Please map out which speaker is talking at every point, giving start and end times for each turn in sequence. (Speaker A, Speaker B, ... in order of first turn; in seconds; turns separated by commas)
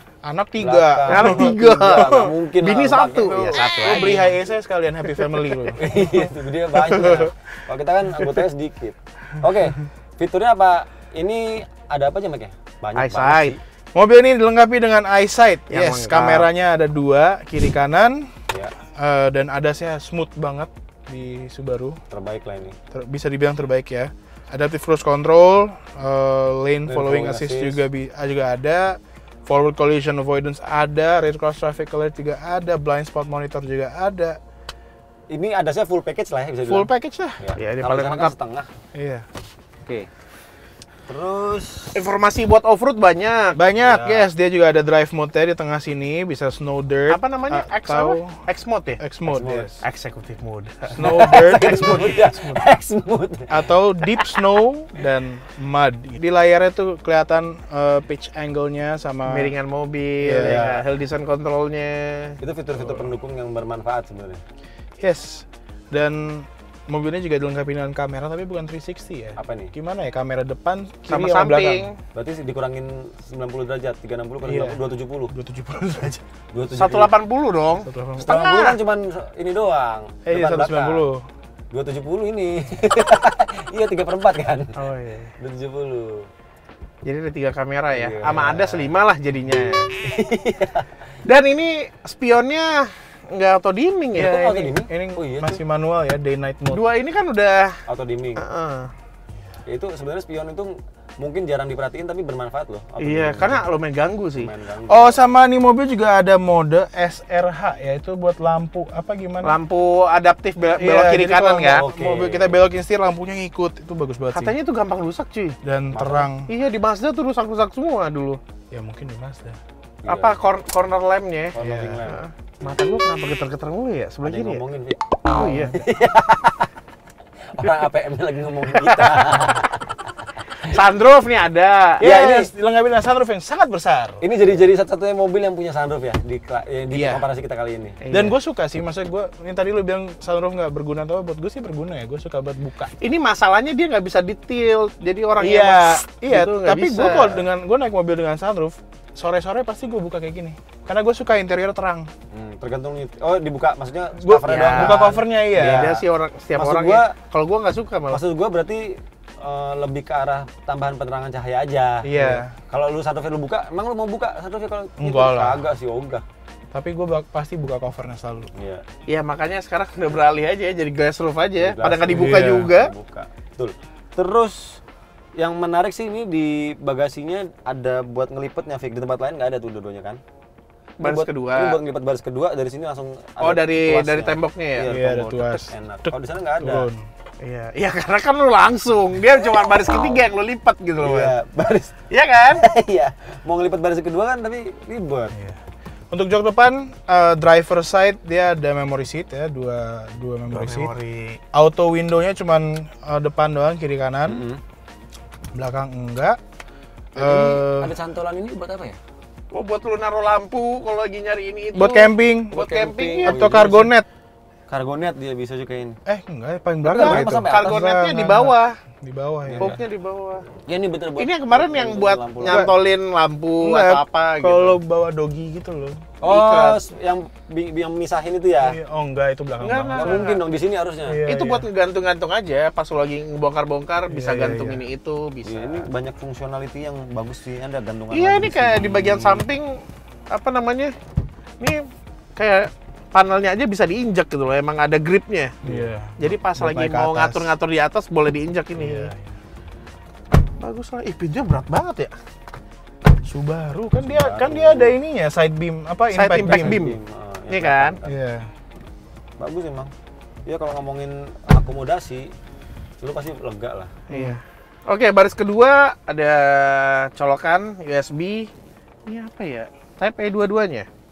Speaker A: 0.2-2.2, Speaker B: 0.6-4.0, Speaker C: 1.1-4.3, Speaker A: 3.3-6.3, Speaker B: 5.8-13.6, Speaker C: 6.9-7.3, Speaker C: 13.0-13.6, Speaker A: 13.9-18.3, Speaker C: 15.7-16.5, Speaker A: 18.9-22.0, Speaker B: 22.1-22.8, Speaker A: 22.9-34.4, Speaker B: 26.9-27.9, Speaker B: 35.3-38.7, Speaker A: 36.7-37.4, Speaker C: 37.5-38.3, Speaker A: 38.9-39.3, Speaker B: 39.8-40.1, Speaker B: 41.1-42.0, Speaker C: 42.0-43.6, Speaker A: 43.5-48.4, Speaker B: 43.8-44.3, Speaker C: 47.1-49.0, Speaker A: 49.0-49.8, Speaker B: 49.3-49.7, Speaker C: 49.8-52.6, Speaker A: 50.9-52.0, Speaker B: 51.0-54.3, Speaker A: 53.5-59.5, Speaker C: 59.3-62.4, Speaker A: 60.2-60.6, Speaker B: 60.4-60.8, Speaker B: 62.4-64.4, Speaker A: 62.8-63.1, Speaker A: 65.0-71.9, Speaker B: 69.4-69.7, Speaker C: 71.1-72.0, Speaker B: 72.1-75.3, Speaker A: 74.4-76.2, Speaker B: 76.5-77.1, Speaker C: 76.7-78.8, Speaker A: 77.8-78.3, Speaker B: 78.2-81.1, Speaker A: 80.3-81.2, Speaker B: 81.7-84.8, Speaker C: 84.8-85.3, Speaker B: 85.4-86.3, Speaker C: 87.0-89.9, Speaker B: 87.9-88.9, Speaker B: 90.0-91.0, Speaker C: 91.2-94.7, Speaker B: 94.2-95.6, Speaker A: 94.8-96.8, Speaker C: 96.7-97.8, Speaker B: 97.9-98.5, Speaker C: 98.4-98.9, Speaker B: 99.7-103.6, Speaker C: 103.0-104.5, Speaker B: 104.4-105.2, Speaker A: 104.9-109.6, Speaker C: 109.4-111.9, Speaker A: 110.8-114.6, Speaker B: 111.7-112.6, Speaker C: 114.3-115.6, Speaker A: 115.6-116.5, Speaker B: 115.9-116.3, Speaker C: 116.5-118.4, Speaker A: 118.7-119.6, Speaker B: 120.0-120.4, Speaker C: 120.1-121.6, Speaker B: 121.5-122.8, Speaker A: 121.6-122.1, Speaker C: 122.1-124.6, Speaker B: 124.2-126.7, Speaker C: 125.3-125.8, Speaker B: 127.5-129.8, Speaker C: 128.7-129.7, Speaker C: 130.6-132.0, Speaker A: 132.0-134.2, Speaker B: 132.0-132.5, Speaker B: 134.2-138.0, Speaker A: 136.9-137.2, Speaker C: 138.0-138.4, Speaker A: 138.1-142.9, Speaker C: 143.0-147.5, Speaker A: 145.4-152.1, Speaker B: 152.3-156.0, Speaker A: 154.2-155.9, Speaker C: 154.4-158.2, Speaker B: 156.6-157.2, Speaker B: 158.1-166.2, Speaker A: 162.0-162.5, Speaker A: 165.0-165.7, Speaker A: 166.7-168.5, Speaker B: 168.5-168.8, Speaker C: 169.1-172.9, Speaker B: 171.6-174.8, Speaker A: 172.1-172.7, Speaker B: 175.4-180.2, Speaker C: 181.0-181.8, Speaker B: 181.0-186.9, Speaker C: 183.4-184.9, Speaker A: 184.8-187.1, Speaker C: 187.4-191.3, Speaker B: 189.8-190.2, Speaker B: 191.0-195.4, Speaker C: 192.1-192.6, Speaker A: 195.3-200.9, Speaker C: 200.5-201.4, Speaker A: 201.5-204.4, Speaker B: 204.3-204.6, Speaker A: 205.6-206.4, Speaker A: 207.2-207.9, Speaker B: 207.2-209.0, Speaker C: 209.5-213.4, Speaker A: 211.8-212.7, Speaker B: 212.5-213.9, Speaker A: 213.2-214.1, Speaker B: 214.7-216.0, Speaker A: 216.1-219.8, Speaker B: 216.8-217.8, Speaker C: 216.9-218.8, Speaker B: 219.5-219.8, Speaker C: 219.6-220.4, Speaker B: 220.7-222.7, Speaker C: 221.2-224.8, Speaker A: 222.5-222.7, Speaker A: 223.6-226.1, Speaker B: 226.2-228.8, Speaker C: 226.2-226.8, Speaker A: 228.6-230.2, Speaker C: 229.6-230.4, Speaker B: 229.9-231.2, Speaker A: 231.1-231.7, Speaker C: 231.2-235.9, Speaker A: 234.1-234.8, Speaker B: 235.4-239.4, Speaker C: 238.1-240.9, Speaker C: 241.6-245.5, Speaker B: 245.6-245.9, Speaker A: 245.6-247.5, Speaker C: 246.2-249.1, Speaker A: 248.8-249.4, Speaker C: 250.6-252.1, Speaker A: 253.2-256.8, Speaker B: 254.1-254.9, Speaker C: 256.1-257.0, Speaker B: 256.4-258.2, Speaker C: 257.5-258.0, Speaker A: 258.1-258.5, Speaker B: 259.4-259.9, Speaker B: 260.5-262.3, Speaker B: 263.0-264.0, Speaker C: 264.1-268.5, Speaker A: 264.1-264.4, Speaker C: 269.1-270.9